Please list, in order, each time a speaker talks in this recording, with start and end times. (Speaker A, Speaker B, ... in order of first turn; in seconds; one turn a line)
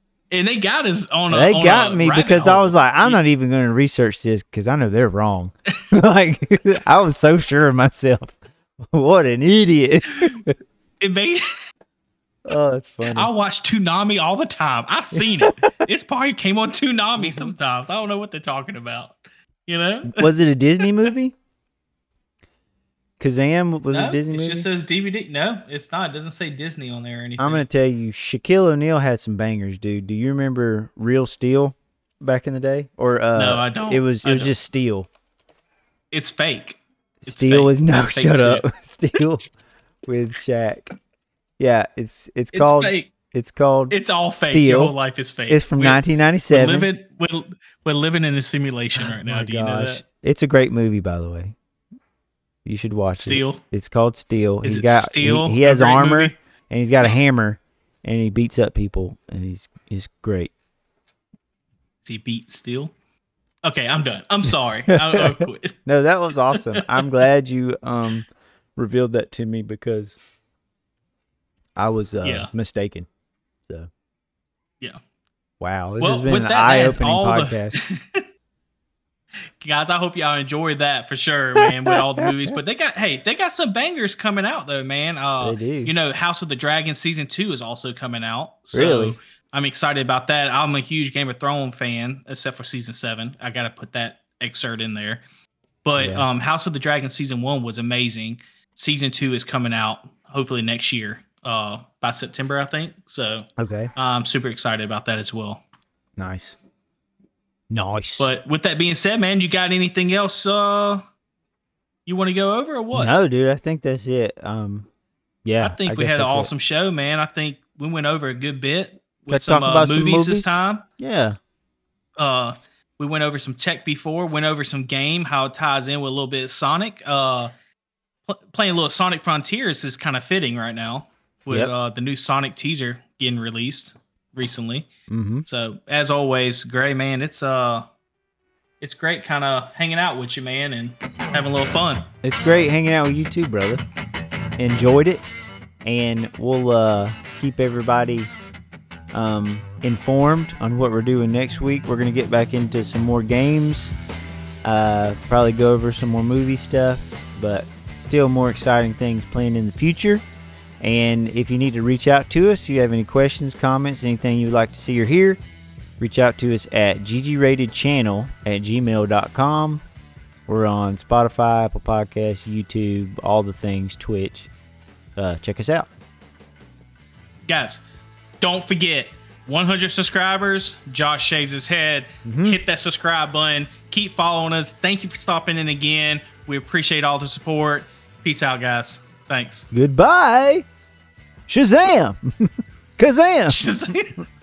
Speaker A: 0.3-3.2
Speaker B: 1.3-10.5
Speaker A: 11.0-11.4
Speaker B: 12.5-13.3
Speaker A: 13.1-21.1
Speaker B: 15.2-15.7
Speaker B: 17.2-17.6
Speaker B: 20.1-21.4
Speaker B: 23.2-24.7
Speaker A: 23.9-27.7
Speaker B: 27.4-35.1
Speaker A: 33.4-34.5
Speaker A: 36.1-38.7
Speaker B: 37.2-39.5
Speaker B: 40.1-40.9
Speaker B: 41.6-44.9
Speaker A: 42.5-43.1
Speaker A: 43.9-50.0
Speaker B: 45.5-46.9
Speaker B: 49.0-51.5
Speaker B: 52.6-60.5
Speaker A: 53.2-53.6
Speaker A: 54.6-56.4
Speaker A: 62.0-62.9
Speaker A: 63.6-65.8
Speaker B: 64.9-70.2
Speaker A: 66.5-67.0
Speaker B: 71.8-73.1
Speaker A: 72.2-72.5
Speaker B: 75.6-77.8
Speaker A: 76.0-78.2
Speaker A: 79.6-95.2
Speaker B: 81.6-82.5
Speaker B: 85.4-85.9
Speaker B: 88.7-89.2
Speaker A: 95.8-105.6
Speaker B: 96.0-96.3
Speaker B: 103.6-103.9
Speaker B: 106.2-106.6
Speaker B: 107.7-108.3
Speaker A: 108.2-111.0
Speaker A: 112.1-113.1
Speaker B: 112.9-114.9
Speaker B: 115.5-116.5
Speaker A: 115.6-120.8
Speaker B: 119.3-121.4
Speaker A: 122.2-127.5
Speaker A: 128.3-134.9
Speaker B: 135.1-135.5
Speaker A: 135.5-137.9
Speaker A: 138.8-142.0
Speaker B: 142.2-143.8
Speaker B: 144.6-148.3
Speaker B: 149.1-153.9
Speaker B: 154.6-160.2
Speaker B: 160.8-165.4
Speaker B: 166.0-169.8
Speaker B: 170.5-174.5
Speaker B: 175.2-175.9
Speaker A: 177.5-177.8
Speaker A: 178.4-189.7
Speaker B: 182.2-182.6
Speaker B: 189.7-190.7
Speaker B: 191.5-193.6
Speaker A: 193.5-194.2